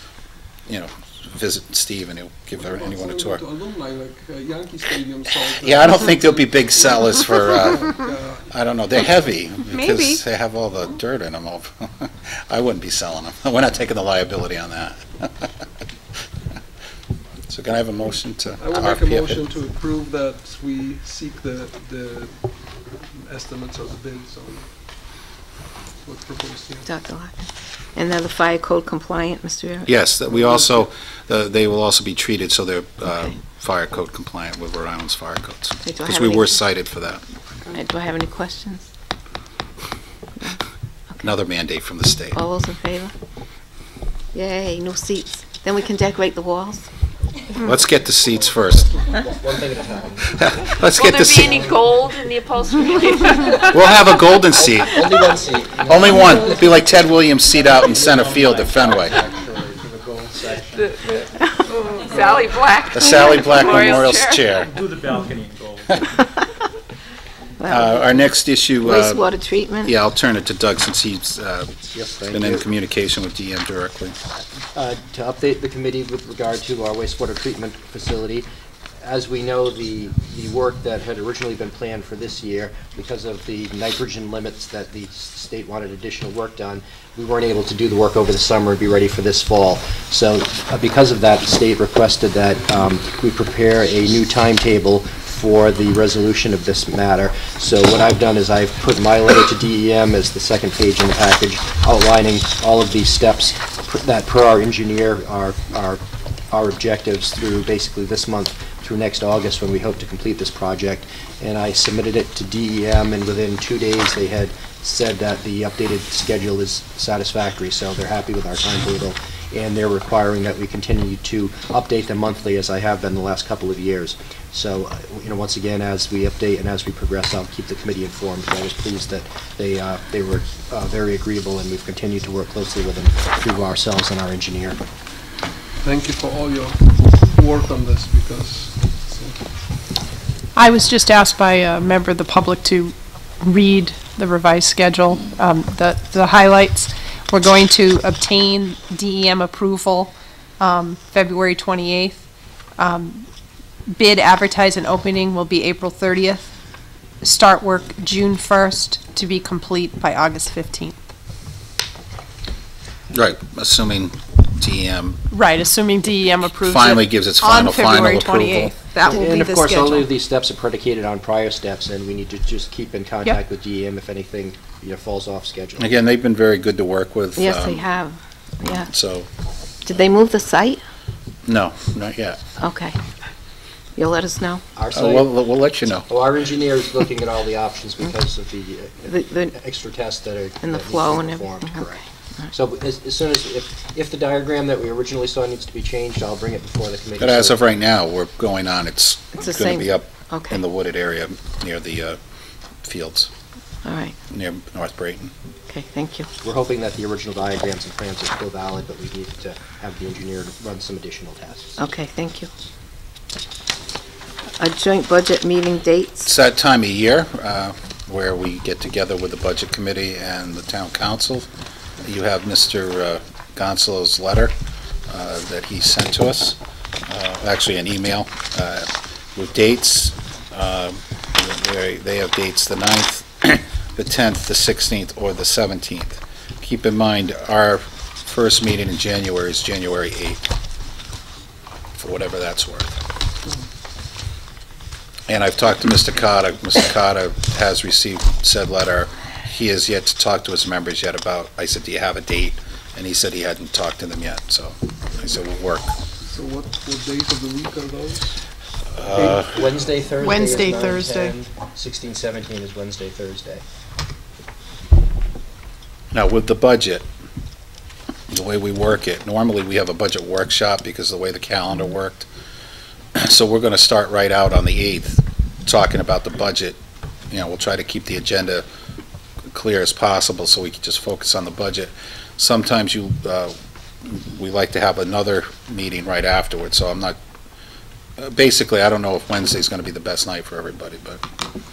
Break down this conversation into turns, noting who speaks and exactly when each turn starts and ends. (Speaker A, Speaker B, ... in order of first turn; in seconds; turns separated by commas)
Speaker A: 0.7-3.4, Speaker B: 2.6-8.5, Speaker A: 5.5-8.0, Speaker A: 8.5-15.3, Speaker C: 9.7-10.2, Speaker A: 17.5-19.4, Speaker B: 18.6-24.7, Speaker B: 26.0-26.9, Speaker D: 26.9-30.0, Speaker A: 29.9-37.2, Speaker B: 30.2-30.9, Speaker D: 35.8-36.6, Speaker D: 37.7-38.9, Speaker A: 41.2-42.4, Speaker D: 42.3-43.1, Speaker D: 44.3-46.9, Speaker A: 47.6-48.9, Speaker E: 49.2-50.3, Speaker A: 50.3-51.7, Speaker F: 50.9-54.0, Speaker E: 51.3-51.9, Speaker A: 53.7-55.4, Speaker E: 54.5-56.8, Speaker A: 55.9-59.2, Speaker G: 56.0-56.6, Speaker G: 57.6-61.2, Speaker E: 57.8-60.9, Speaker F: 61.6-64.5, Speaker G: 62.0-62.3, Speaker A: 62.9-64.8, Speaker G: 63.3-63.6, Speaker G: 64.6-66.1, Speaker D: 67.6-68.2, Speaker A: 67.7-69.3, Speaker D: 68.8-69.9, Speaker A: 69.8-71.7, Speaker E: 71.9-72.7, Speaker A: 72.3-74.1, Speaker E: 74.6-78.5, Speaker E: 79.0-134.8, Speaker B: 135.8-139.5, Speaker C: 140.5-152.2, Speaker C: 152.8-153.3, Speaker C: 153.9-156.5, Speaker C: 157.2-160.9, Speaker A: 163.1-165.2, Speaker C: 165.3-170.1, Speaker A: 166.6-168.7, Speaker E: 169.0-175.9, Speaker A: 175.8-177.8, Speaker D: 177.3-178.9, Speaker A: 178.9-179.3, Speaker D: 179.8-180.8, Speaker A: 181.4-182.4, Speaker D: 182.6-183.0, Speaker D: 183.9-184.7, Speaker E: 184.8-185.4, Speaker A: 184.9-186.1, Speaker E: 186.1-197.6, Speaker D: 189.1-189.5, Speaker D: 190.6-192.5, Speaker A: 197.2-202.2, Speaker D: 199.3-200.6, Speaker A: 202.8-203.3, Speaker D: 203.8-204.1, Speaker A: 204.3-205.3, Speaker D: 205.7-206.3, Speaker E: 206.4-211.8, Speaker D: 211.8-212.5, Speaker D: 214.6-216.3, Speaker A: 216.2-221.5, Speaker A: 222.0-224.5, Speaker A: 225.1-240.4, Speaker A: 242.0-243.0, Speaker A: 245.3-255.9, Speaker B: 256.2-258.4, Speaker A: 258.9-259.5, Speaker B: 259.1-259.4, Speaker E: 259.1-263.6, Speaker C: 260.2-261.3, Speaker A: 266.1-267.1, Speaker A: 268.3-272.3, Speaker A: 273.1-276.8, Speaker A: 277.3-278.6, Speaker A: 279.5-287.2, Speaker A: 288.2-291.2